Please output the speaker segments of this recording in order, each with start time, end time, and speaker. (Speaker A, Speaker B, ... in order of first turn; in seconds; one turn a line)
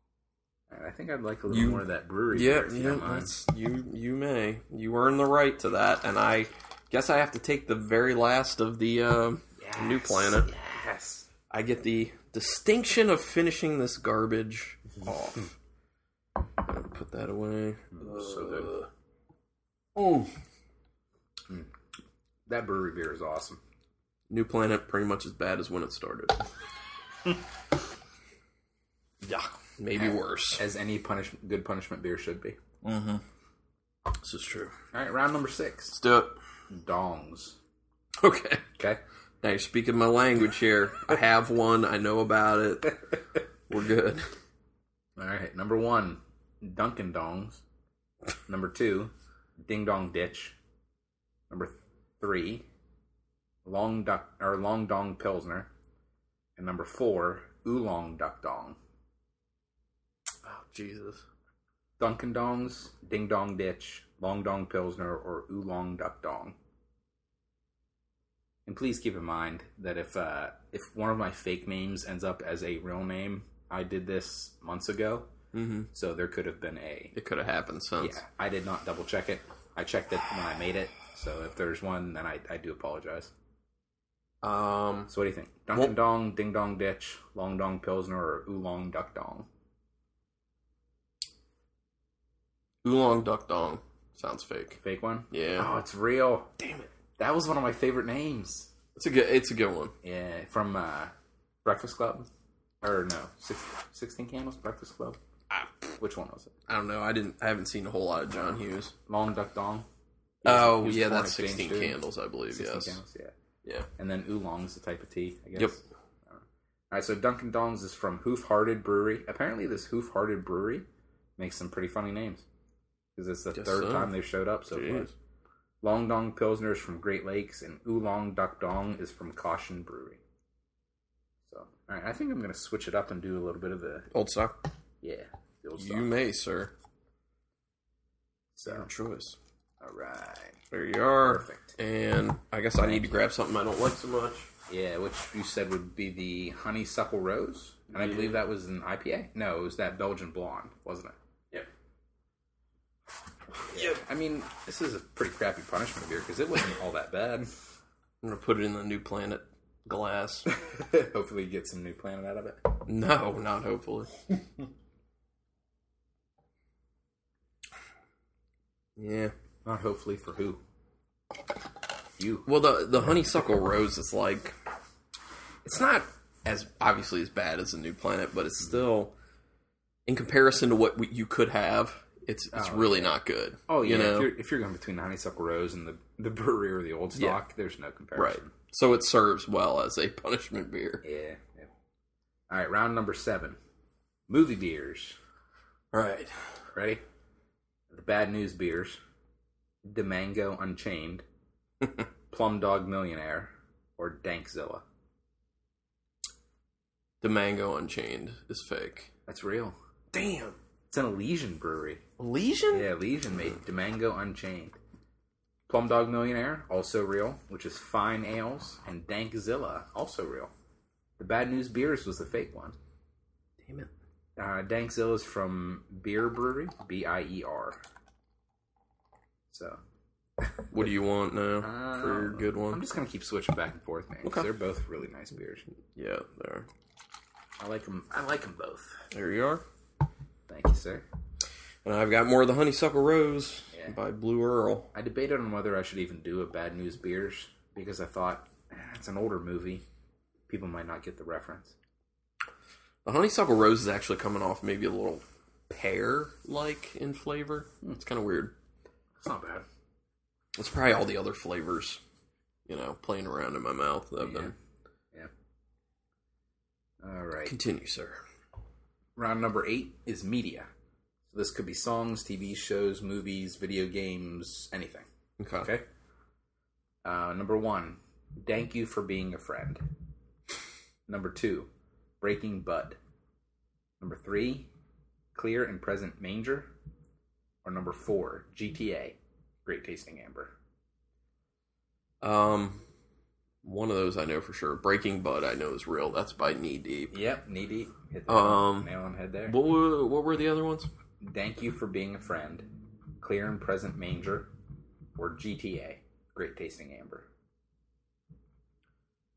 Speaker A: 0.7-3.3
Speaker B: 1.5-10.5
Speaker A: 9.6-11.3
Speaker B: 11.5-15.5
Speaker B: 16.6-18.9
Speaker A: 17.9-18.7
Speaker B: 20.0-20.3
Speaker A: 22.5-23.6
Speaker B: 24.3-26.4
Speaker B: 29.3-30.6
Speaker A: 29.9-32.6
Speaker B: 32.8-33.2
Speaker B: 34.2-34.7
Speaker A: 34.9-36.0
Speaker B: 35.9-36.3
Speaker A: 36.7-37.6
Speaker B: 38.2-38.6
Speaker B: 39.4-43.0
Speaker B: 43.7-44.3
Speaker A: 45.2-47.6
Speaker A: 48.5-49.1
Speaker A: 49.6-50.6
Speaker A: 51.5-52.7
Speaker A: 53.6-55.7
Speaker A: 56.6-58.8
Speaker B: 60.5-61.2
Speaker A: 62.0-66.6
Speaker A: 68.7-75.3
Speaker B: 75.5-75.9
Speaker A: 75.9-77.1
Speaker B: 77.1-78.2
Speaker A: 78.0-83.3
Speaker B: 84.4-85.1
Speaker A: 85.1-89.5
Speaker B: 92.8-94.8
Speaker A: 94.8-96.5
Speaker B: 95.3-95.7
Speaker B: 96.6-96.9
Speaker A: 97.2-98.7
Speaker B: 99.0-99.9
Speaker A: 100.0-101.1
Speaker A: 101.6-102.3
Speaker A: 102.8-105.2
Speaker B: 105.5-105.9
Speaker A: 106.0-106.5
Speaker B: 106.7-108.9
Speaker A: 109.1-109.9
Speaker A: 110.4-112.0
Speaker B: 110.5-113.0
Speaker A: 112.5-113.3
Speaker A: 114.0-120.9
Speaker A: 121.4-122.5
Speaker A: 123.2-125.1
Speaker B: 123.5-124.1
Speaker B: 124.7-125.1
Speaker A: 125.8-130.2
Speaker A: 131.5-134.1
Speaker B: 134.1-134.6
Speaker A: 135.0-136.1
Speaker B: 135.8-136.7
Speaker A: 138.6-138.9
Speaker B: 138.7-139.4
Speaker A: 139.8-140.6
Speaker B: 140.7-144.5
Speaker A: 141.2-141.8
Speaker A: 142.8-143.2
Speaker A: 144.7-151.2
Speaker B: 148.0-148.4
Speaker A: 153.7-157.5
Speaker B: 158.2-160.5
Speaker A: 160.5-162.7
Speaker B: 162.9-164.1
Speaker B: 169.0-169.3
Speaker A: 169.7-170.6
Speaker A: 172.2-172.5
Speaker B: 172.5-174.6
Speaker B: 175.7-179.1
Speaker B: 180.1-184.3
Speaker A: 182.5-188.5
Speaker B: 188.2-191.0
Speaker A: 191.0-191.7
Speaker A: 192.5-193.6
Speaker A: 194.3-195.2
Speaker B: 195.9-196.3
Speaker A: 196.7-197.0
Speaker A: 197.9-199.0
Speaker A: 199.9-201.2
Speaker A: 202.3-204.8
Speaker B: 207.2-209.1
Speaker A: 209.3-209.8
Speaker B: 210.1-210.6
Speaker A: 210.9-212.0
Speaker B: 212.2-212.9
Speaker A: 212.7-214.8
Speaker A: 215.7-220.5
Speaker A: 221.2-222.8
Speaker B: 223.6-223.9
Speaker A: 224.4-227.8
Speaker A: 229.5-229.8
Speaker B: 230.7-232.8
Speaker A: 231.6-235.7
Speaker B: 235.9-236.7
Speaker A: 237.6-239.1
Speaker B: 239.1-239.6
Speaker A: 240.5-241.1
Speaker B: 241.8-244.9
Speaker A: 244.9-249.8
Speaker A: 250.5-251.8
Speaker B: 253.1-258.6
Speaker A: 259.2-259.6
Speaker B: 260.6-262.0
Speaker B: 262.7-264.5
Speaker A: 264.2-264.6
Speaker A: 267.0-267.6
Speaker B: 267.5-268.2
Speaker A: 269.2-270.7
Speaker A: 271.3-275.1
Speaker B: 275.4-275.7
Speaker A: 275.6-275.9
Speaker A: 277.1-279.8
Speaker A: 281.1-281.7
Speaker A: 282.2-283.0
Speaker A: 284.0-284.7
Speaker A: 285.4-286.7
Speaker A: 287.6-290.5
Speaker B: 292.2-292.8
Speaker B: 293.6-297.1
Speaker A: 297.1-299.6
Speaker B: 298.3-298.9
Speaker B: 299.5-300.9
Speaker A: 301.2-302.7
Speaker A: 303.2-304.5
Speaker A: 305.2-307.3